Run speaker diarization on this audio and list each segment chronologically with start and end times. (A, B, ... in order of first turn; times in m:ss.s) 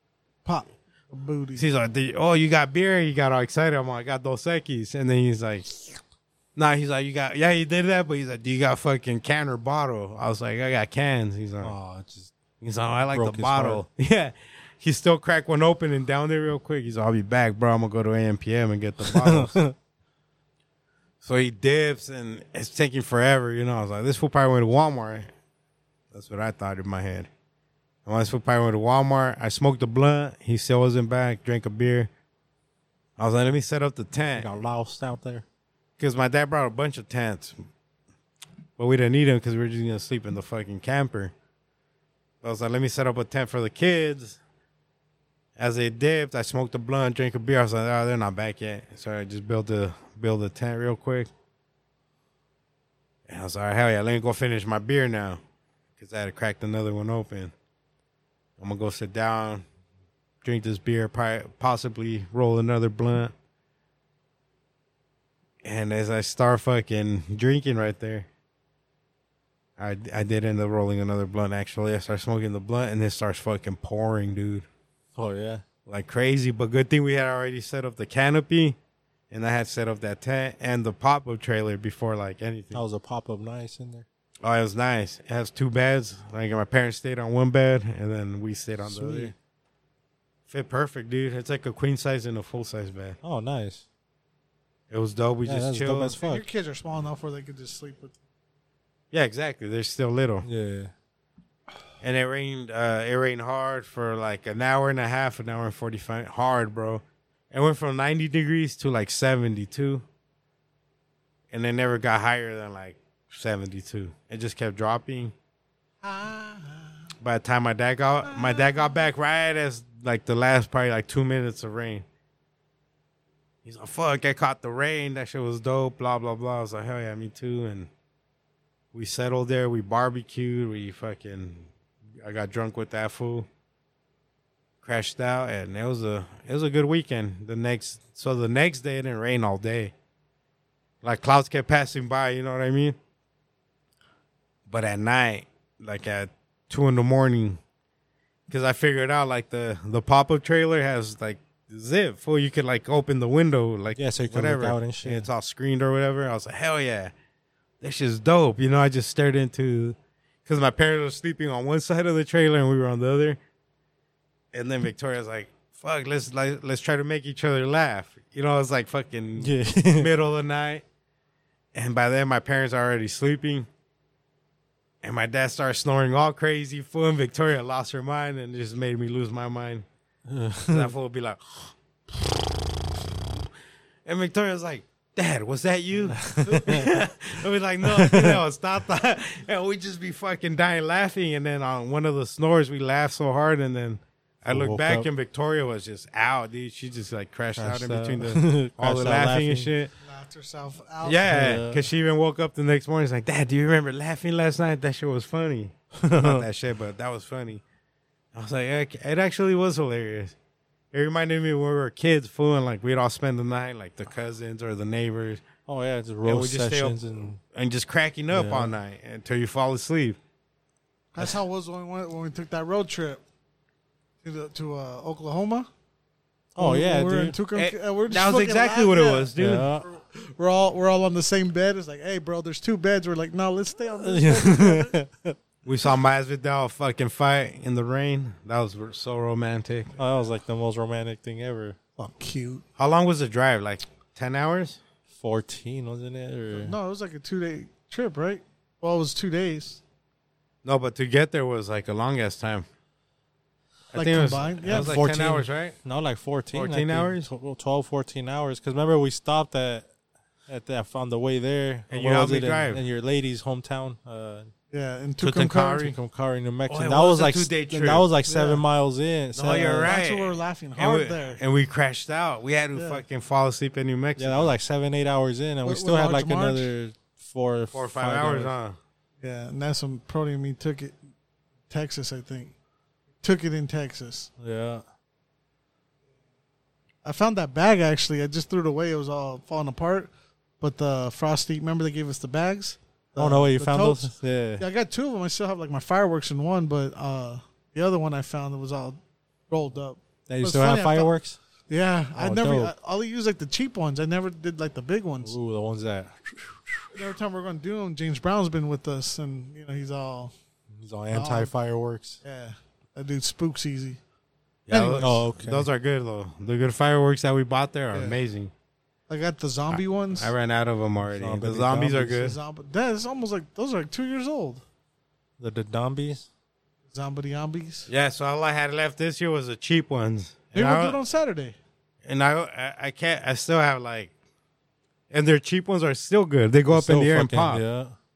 0:00.4-0:01.6 A
0:01.6-0:05.7 B
0:06.6-0:11.8 B
0:11.6-0:12.3 C
0:12.6-0:19.6 B
0:13.1-0:13.8 C
0:19.0-0:19.8 C
0:21.2-0:25.3 B
0:26.1-0:27.3 B
0:28.1-0:32.1 B
0:33.2-0:34.5 B
0:34.3-0:35.4 C
0:36.0-0:37.6 B
0:38.8-0:41.3 B
0:42.4-0:44.4 B
0:45.6-0:51.3 B
0:53.3-0:55.4 B
0:56.0-0:57.5 B
0:58.6-0:59.6 B
1:00.4-1:03.3 B
1:05.6-1:08.3 B
1:09.8-1:14.7 B
1:15.2-1:15.6 C
1:15.9-1:18.8 B
1:19.3-1:22.8 B
1:22.7-1:24.1 C
1:24.4-1:29.3 B
1:28.8-1:29.3 C
1:30.5-1:33.2 B
1:33.2-1:33.8 C
1:34.9-1:36.2 B
1:35.5-1:36.4 C
1:36.2-1:38.2 A
1:39.1-1:40.5 B
1:40.4-1:40.9 C
1:42.0-1:50.0 B
1:51.5-1:55.3 B
1:56.0-1:57.0 A
1:57.2-2:02.0 B
1:58.2-1:59.0 A
2:03.6-2:07.9 B
2:08.9-2:13.5 B
2:14.8-2:19.9 B
2:21.0-2:23.0 B
2:24.7-2:27.6 B
2:28.5-2:37.1 B
2:34.0-2:35.3 C
2:37.8-2:43.4 B
2:44.5-2:50.8 B
2:49.4-2:50.1 C
2:51.7-2:53.7 B
2:55.0-2:59.8 B
3:00.3-3:00.9 C
3:00.7-3:02.5 B
3:04.0-3:19.9 B
3:06.1-3:07.0 C
3:07.8-3:08.4 C
3:14.4-3:15.1 C
3:17.6-3:19.7 C
3:20.0-3:21.3 A
3:21.0-3:27.6 B
3:21.2-3:21.8 C
3:26.0-3:26.4 C
3:28.3-3:30.4 B
3:30.9-3:35.4 B
3:35.7-3:37.4 C
3:36.2-3:40.2 B
3:38.3-3:38.8 C
3:41.1-3:43.2 A
3:44.2-3:45.7 A
3:46.6-3:47.4 C
3:46.6-3:55.0 A
3:47.5-3:49.7 B
3:49.4-3:49.9 C
3:54.0-3:55.4 C
3:55.6-4:00.0 B
4:00.0-4:01.8 C
4:02.0-4:02.6 A
4:02.8-4:04.8 B
4:05.1-4:06.8 C
4:06.5-4:09.8 A
4:10.6-4:12.7 B
4:13.9-4:15.8 B
4:14.0-4:15.0 A
4:14.7-4:19.9 C
4:16.5-4:17.3 B
4:20.5-4:24.5 C
4:21.9-4:22.8 B
4:24.7-4:25.9 A
4:25.2-4:26.0 B
4:25.8-4:30.0 C
4:26.7-4:28.1 B
4:28.2-4:28.6 A
4:29.4-4:34.5 B
4:29.5-4:31.4 A
4:32.8-4:33.0 A
4:34.2-4:38.5 C
4:35.6-4:36.7 A
4:37.7-4:38.8 B
4:39.2-4:41.0 A
4:41.7-4:42.5 A
4:43.2-4:44.3 A
4:44.4-4:44.8 C
4:47.0-4:50.1 A
4:50.6-4:59.0 A
4:53.2-4:54.6 C
4:59.5-5:01.1 A
5:00.3-5:01.4 C
5:01.7-5:05.4 A
5:02.2-5:02.7 C
5:05.2-5:07.1 C
5:06.9-5:10.3 A
5:10.7-5:12.2 C
5:11.1-5:11.5 A
5:12.2-5:14.0 A
5:14.7-5:18.5 B
5:14.7-5:15.2 A
5:15.0-5:15.7 C
5:17.9-5:18.2 A
5:19.1-5:20.3 A
5:19.7-5:22.4 B
5:21.1-5:22.3 C
5:22.1-5:24.6 A
5:25.4-5:26.3 C
5:26.9-5:27.9 A
5:27.9-5:31.0 B
5:30.5-5:31.6 A
5:32.0-5:34.1 B
5:35.1-5:37.6 B
5:36.7-5:38.0 C